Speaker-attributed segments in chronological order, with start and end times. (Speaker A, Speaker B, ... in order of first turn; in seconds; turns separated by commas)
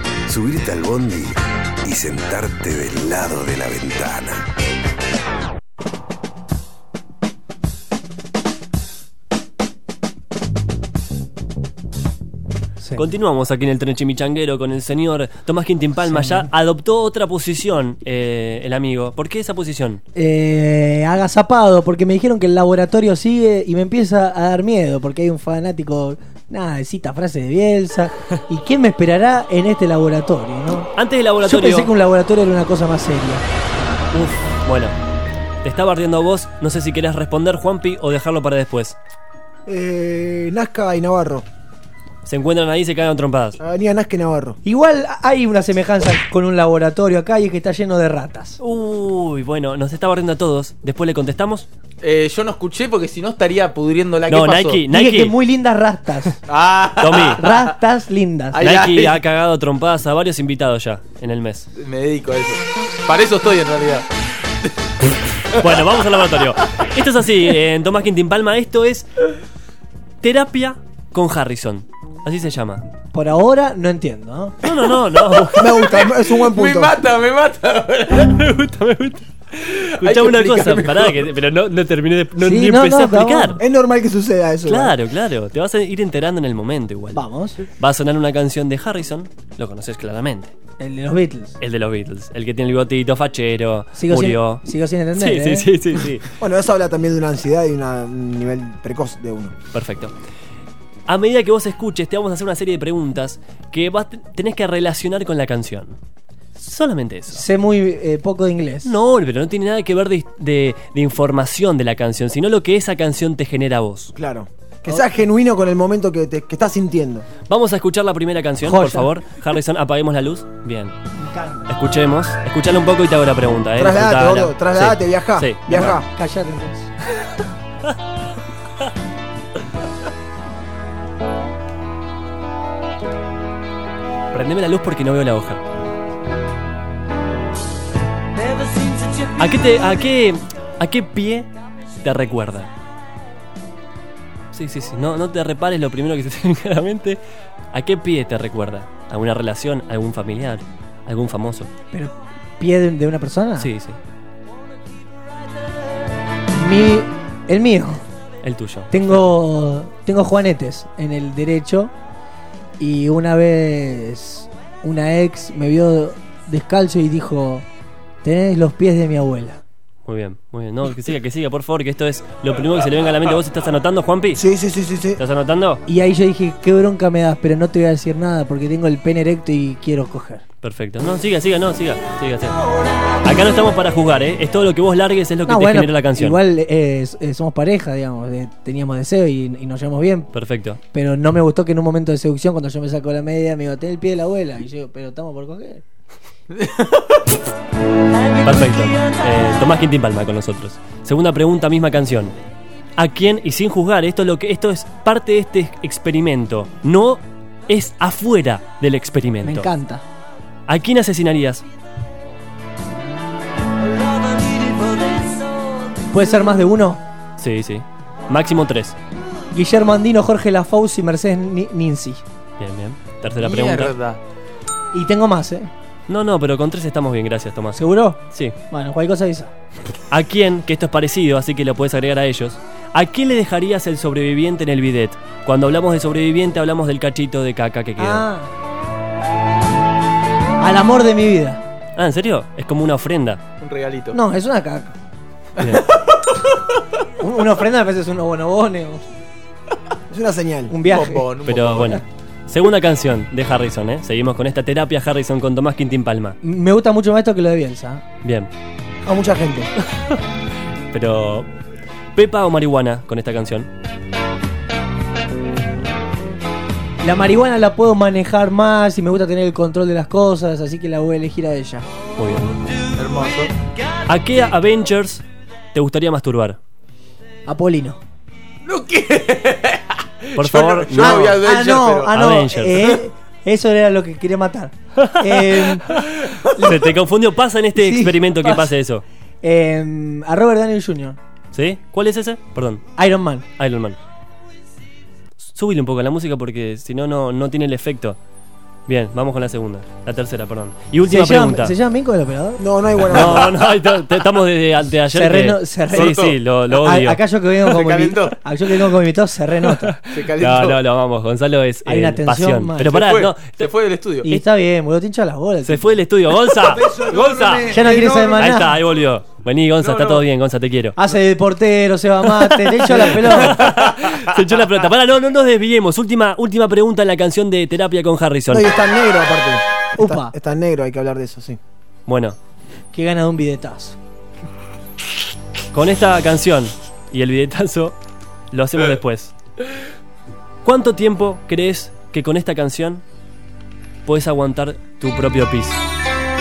Speaker A: 0.3-4.5, Speaker B: 13.0-20.0, Speaker C: 16.0-16.5, Speaker C: 20.1-30.9, Speaker B: 30.9-31.9, Speaker C: 31.4-33.4, Speaker B: 34.1-35.0, Speaker B: 35.6-39.0, Speaker D: 39.7-41.5, Speaker B: 42.3-43.6, Speaker D: 43.6-44.6, Speaker C: 44.6-48.6, Speaker B: 48.6-51.7, Speaker E: 52.0-54.8, Speaker B: 54.3-55.4, Speaker C: 54.9-56.4, Speaker E: 56.5-57.7, Speaker B: 57.0-57.4, Speaker C: 57.4-58.6, Speaker E: 58.5-59.2, Speaker B: 58.6-61.7, Speaker E: 61.8-64.1, Speaker B: 65.5-69.1, Speaker B: 70.2-72.8, Speaker C: 73.1-74.6, Speaker B: 74.6-75.8, Speaker E: 75.3-78.4, Speaker D: 75.5-77.0, Speaker B: 78.2-83.6, Speaker E: 79.7-81.2, Speaker C: 82.4-83.6, Speaker D: 83.6-85.0, Speaker B: 84.7-90.5, Speaker C: 87.1-87.6, Speaker C: 90.8-91.6, Speaker B: 91.6-96.3, Speaker C: 94.0-95.7, Speaker D: 96.4-99.5, Speaker B: 99.7-100.1, Speaker B: 101.1-106.0, Speaker B: 106.6-107.4, Speaker C: 107.3-109.0, Speaker B: 108.8-114.1, Speaker D: 114.2-117.3, Speaker B: 117.5-121.0, Speaker C: 118.6-119.1, Speaker C: 121.2-121.7, Speaker B: 121.7-126.0, Speaker D: 123.8-126.1, Speaker C: 125.7-126.9, Speaker B: 134.3-135.6, Speaker B: 139.4-141.5, Speaker B: 142.0-142.7, Speaker B: 144.5-147.2, Speaker B: 147.7-151.7, Speaker C: 151.9-153.7, Speaker B: 153.6-154.0, Speaker C: 156.5-158.0, Speaker B: 158.4-158.9, Speaker C: 158.9-161.9, Speaker C: 162.8-167.7, Speaker C: 168.2-169.6, Speaker B: 170.1-174.4, Speaker D: 174.3-175.2, Speaker B: 175.2-175.8, Speaker C: 175.9-180.4, Speaker B: 180.6-182.6, Speaker B: 183.2-186.4, Speaker C: 185.5-190.3, Speaker B: 190.3-190.8, Speaker C: 190.9-195.8, Speaker E: 196.5-197.1, Speaker B: 198.4-202.4, Speaker B: 203.0-209.7, Speaker C: 209.4-210.0, Speaker B: 210.7-211.6, Speaker C: 216.1-217.0, Speaker B: 217.4-219.0, Speaker C: 219.5-222.2, Speaker B: 222.6-223.9, Speaker E: 223.4-224.2, Speaker C: 224.9-225.7, Speaker B: 226.1-228.6, Speaker C: 227.8-229.5, Speaker B: 230.1-238.2, Speaker C: 238.0-238.5, Speaker C: 240.6-241.6, Speaker B: 242.0-243.4, Speaker E: 243.6-244.2, Speaker C: 244.1-245.0, Speaker B: 245.6-245.9, Speaker E: 245.6-246.1, Speaker C: 247.2-249.0, Speaker D: 250.1-250.7, Speaker C: 250.7-251.3, Speaker E: 250.8-252.0, Speaker B: 251.5-256.4, Speaker C: 256.4-258.0, Speaker B: 258.2-258.5, Speaker D: 259.1-259.7, Speaker B: 260.9-261.5, Speaker B: 262.1-263.7, Speaker C: 267.0-271.9, Speaker B: 272.2-272.5, Speaker E: 272.9-273.5, Speaker B: 274.1-276.6, Speaker C: 277.5-278.0, Speaker E: 278.6-282.1, Speaker B: 280.4-281.4, Speaker C: 281.0-285.9, Speaker B: 282.1-282.9, Speaker B: 285.0-286.0, Speaker B: 286.6-289.0, Speaker C: 286.6-286.9, Speaker C: 287.8-288.7, Speaker C: 289.4-291.2, Speaker B: 291.5-292.8, Speaker C: 293.0-293.5, Speaker B: 293.6-294.0, Speaker B: 295.4-298.2, Speaker B: 298.9-301.7, Speaker C: 301.1-302.6, Speaker D: 302.6-303.6, Speaker B: 303.1-307.2, Speaker C: 305.1-306.2, Speaker E: 305.9-306.4, Speaker C: 306.8-309.9, Speaker E: 307.5-308.4, Speaker B: 309.9-313.7, Speaker E: 310.1-310.8, Speaker C: 311.9-312.9, Speaker E: 312.8-314.3, Speaker C: 314.2-316.0, Speaker B: 315.6-321.0, Speaker D: 316.7-318.3, Speaker E: 316.9-317.6, Speaker C: 317.7-318.8, Speaker E: 319.8-320.2, Speaker C: 321.0-323.6, Speaker B: 322.4-328.7, Speaker D: 328.5-331.6, Speaker C: 330.0-330.3, Speaker B: 332.1-332.4, Speaker C: 332.9-334.0, Speaker B: 335.7-338.0, Speaker B: 338.5-339.4, Speaker B: 340.6-343.0, Speaker B: 344.1-345.8